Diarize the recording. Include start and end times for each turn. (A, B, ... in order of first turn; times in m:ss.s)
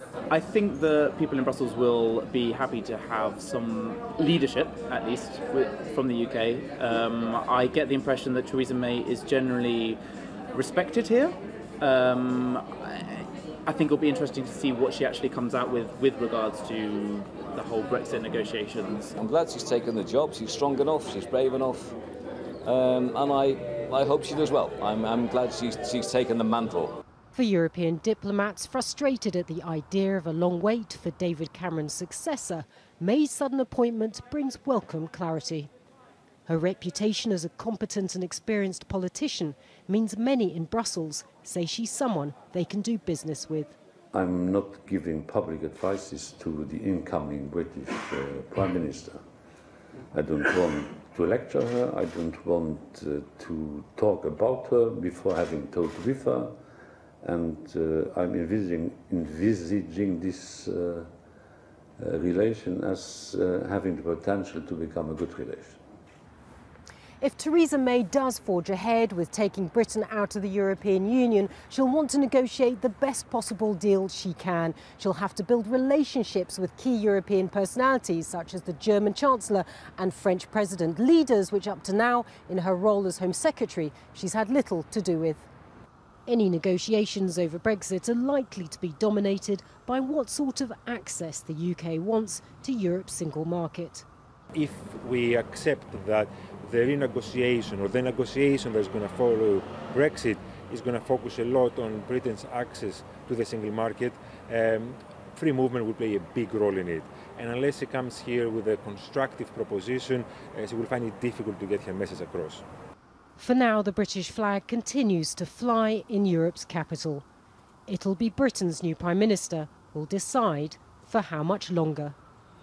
0:00.3-0:10.0 A
0:10.5-0:19.2 A
0:19.2-0:22.0 B
0:22.6-0:27.0 B
0:27.3-0:35.7 C
0:36.5-0:43.7 C
0:44.1-0:49.2 D
0:50.1-0:56.6 D
0:57.2-1:01.1 D
1:02.0-1:05.8 D
1:07.2-1:25.5 C
1:26.2-1:34.0 C
1:34.6-1:52.6 E
1:53.4-1:57.2 C
1:57.9-2:02.2 C